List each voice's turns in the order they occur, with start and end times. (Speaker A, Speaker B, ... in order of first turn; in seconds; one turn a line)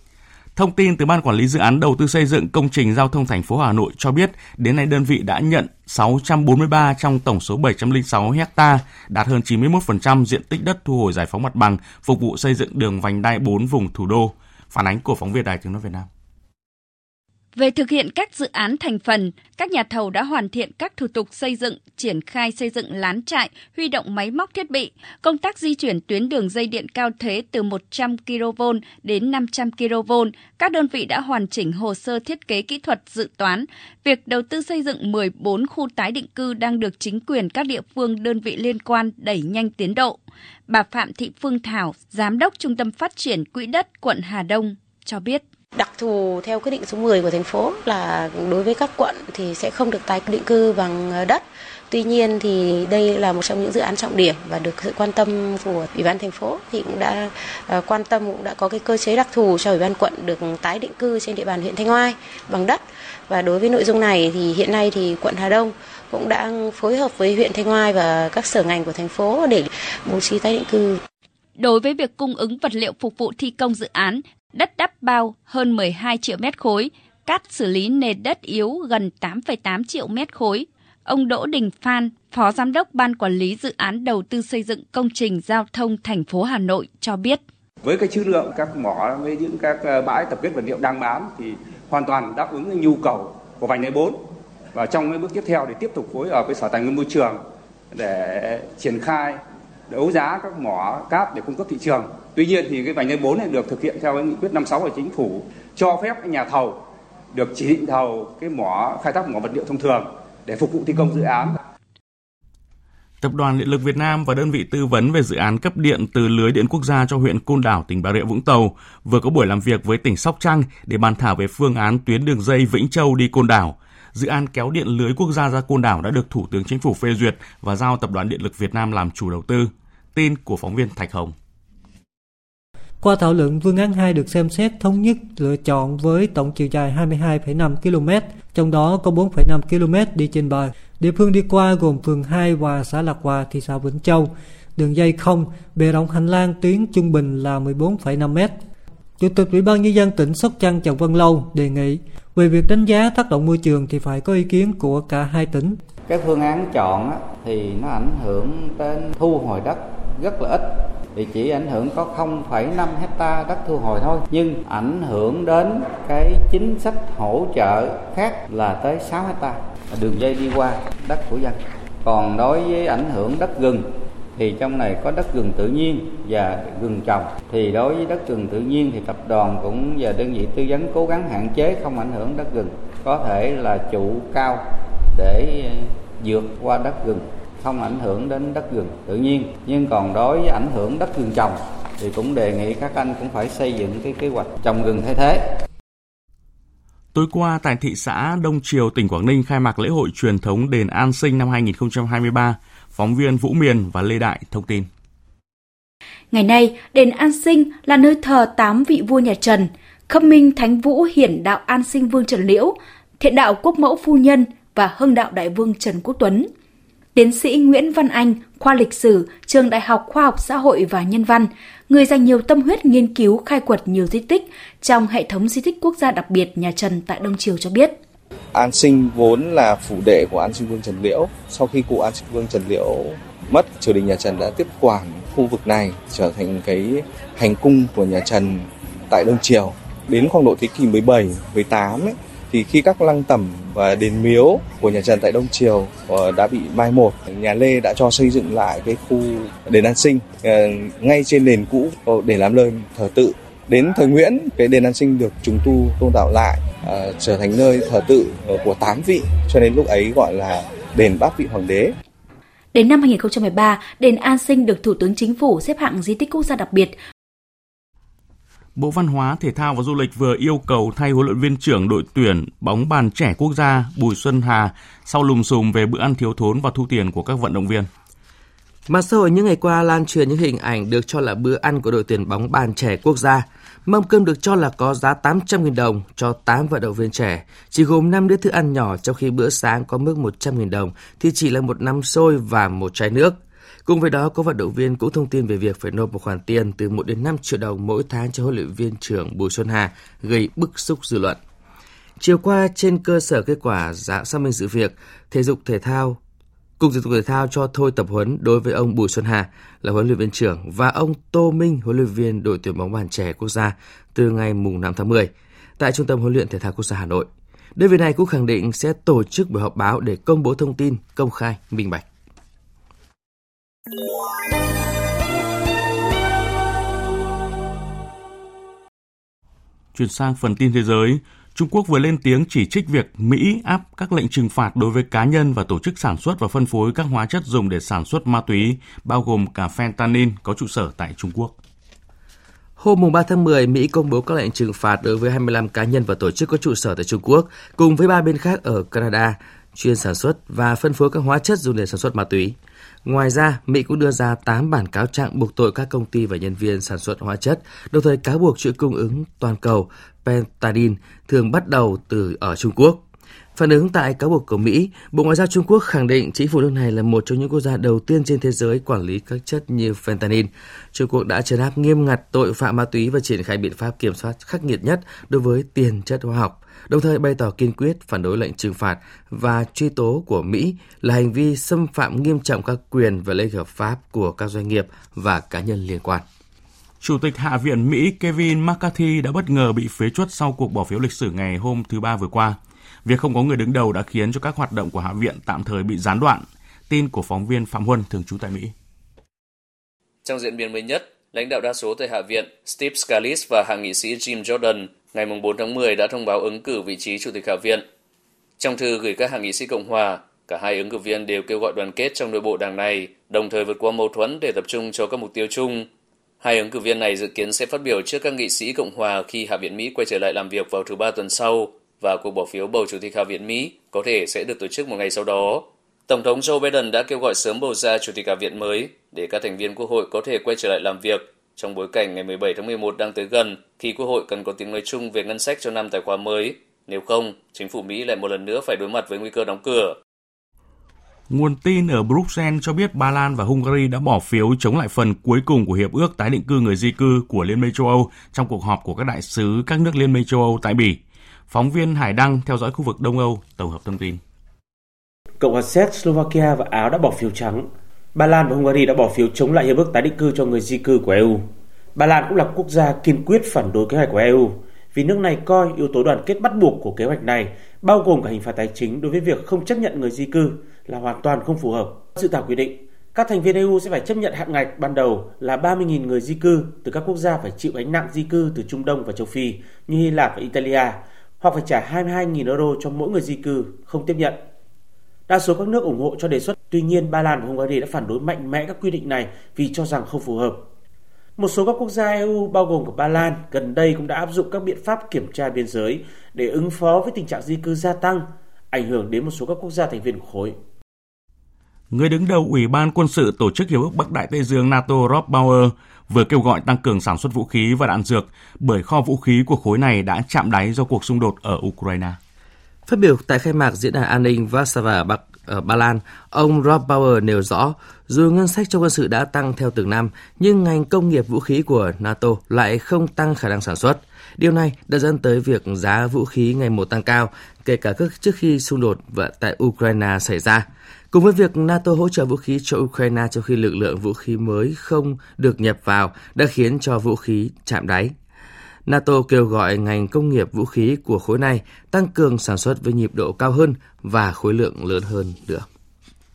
Speaker A: 0.5-16.1
Speaker B: 17.5-40.2
Speaker B: 40.7-45.4
Speaker C: 45.8-71.0
Speaker B: 71.6-87.4
Speaker D: 87.8-94.2
Speaker D: 94.7-97.4
Speaker D: 97.9-106.8
Speaker D: 107.3-111.6
Speaker A: 113.2-131.3
Speaker E: 133.0-148.6
Speaker E: 149.2-155.8
Speaker F: 156.1-195.4
Speaker A: 197.1-204.9
Speaker G: 206.3-216.5
Speaker G: 217.1-228.0
Speaker H: 228.5-261.9
Speaker G: 262.7-266.9
Speaker A: 268.8-277.9
Speaker I: 278.9-301.4
Speaker I: 302.2-306.2
Speaker I: 306.8-322.0
Speaker A: 329.9-341.6
Speaker I: 342.8-363.0
Speaker I: 363.6-386.2
Speaker A: 387.0-398.7
Speaker J: 400.2-407.9
Speaker J: 408.6-415.9
Speaker J: 416.4-440.0
Speaker A: 441.3-454.2
Speaker K: 455.4-484.4
Speaker K: 485.3-490.7
Speaker K: 491.4-500.6
Speaker A: 501.9-512.2
Speaker I: 512.9-538.1
Speaker I: 538.9-545.6